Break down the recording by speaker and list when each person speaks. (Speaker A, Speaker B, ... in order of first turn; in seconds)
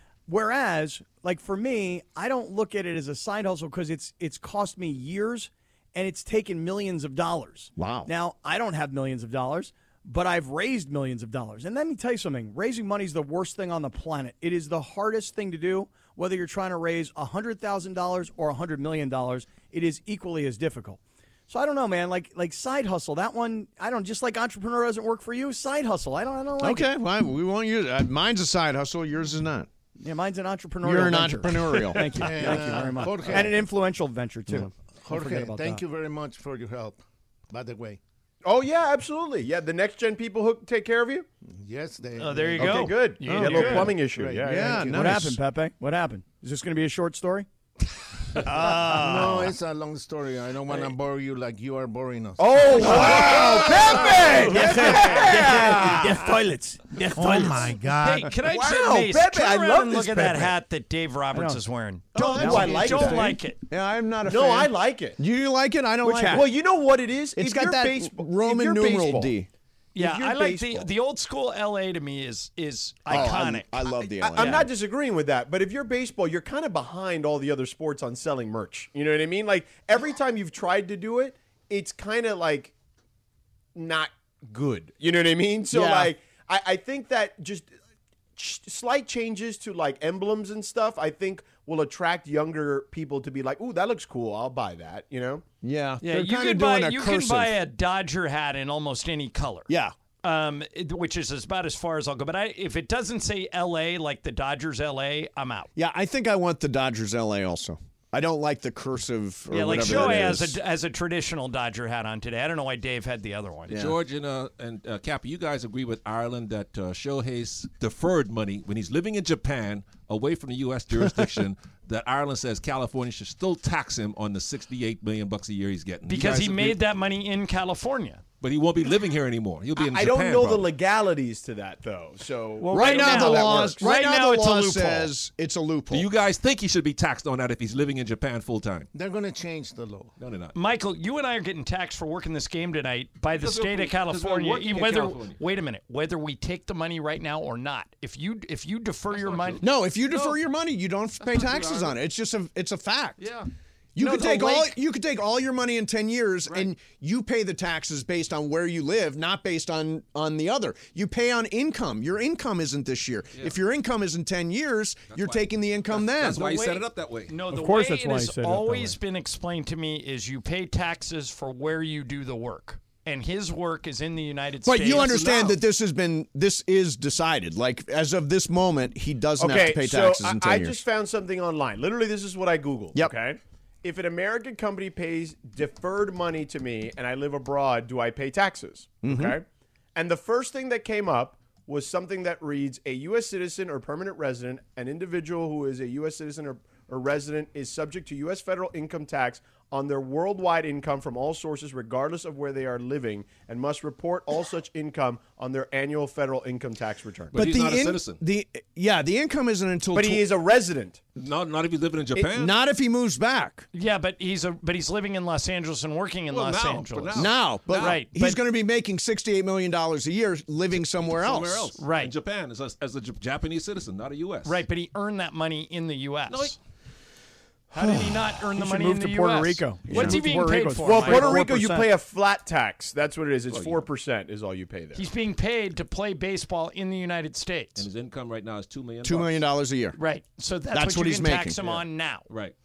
Speaker A: 0.3-26.9, 30.0-35.8, 43.4-43.9, 44.8-47.5, 48.5-49.4, 52.9-57.7, 61.3-61.6, 62.4-63.3, 70.0-70.8, 167.5-169.0, 228.4-231.9
Speaker B: 7.8-8.1, 26.6-29.7, 30.8-32.5, 43.2-43.9, 44.4-45.4, 48.4-49.5, 52.7-56.3, 56.9-57.6, 62.1-66.5, 67.3-69.5, 73.1-74.7, 85.7-86.1, 95.6-97.5, 99.7-99.9, 105.8-110.6, 113.7-114.0, 132.7-136.1, 149.6-153.2, 153.9-166.4, 174.6-180.8, 189.0-189.4, 207.3-210.3, 212.3-213.7, 217.1-221.7, 227.8-228.3, 229.8-230.2, 239.0-240.0, 240.7-241.6
Speaker C: 32.1-33.7, 35.0-38.0, 41.5-45.4, 48.7-55.5, 57.1-58.3, 138.9-140.1
Speaker D: 38.4-41.2, 42.6-44.7, 52.4-56.0, 58.4-60.5, 62.2-63.4, 64.2-65.2, 66.0-69.3, 74.2-82.7, 83.7-87.7, 88.4-95.4, 129.8-133.9, 179.4-207.4, 209.9-211.0, 230.8-235.1
Speaker E: 42.2-43.9, 58.0-63.6, 69.9-74.6, 96.0-99.7, 100.2-105.7, 109.5-113.8, 126.1-128.2, 132.6-135.1, 140.5-149.6, 154.0-154.7, 166.2-175.6, 213.7-218.2, 221.8-222.1, 224.4-226.6, 227.7-231.3, 234.9-237.9, 239.9-242.3
Speaker F: 113.7-126.8, 128.4-130.7, 135.9-138.9, 140.2-140.5, 143.3-145.4, 149.1-150.4, 151.2-151.9, 165.1-165.4, 165.9-167.3, 207.3-208.2, 211.2-212.5, 216.3-218.0, 221.1-224.6, 226.3-226.6, 233.5-233.8, 237.8-239.4, 242.3-242.5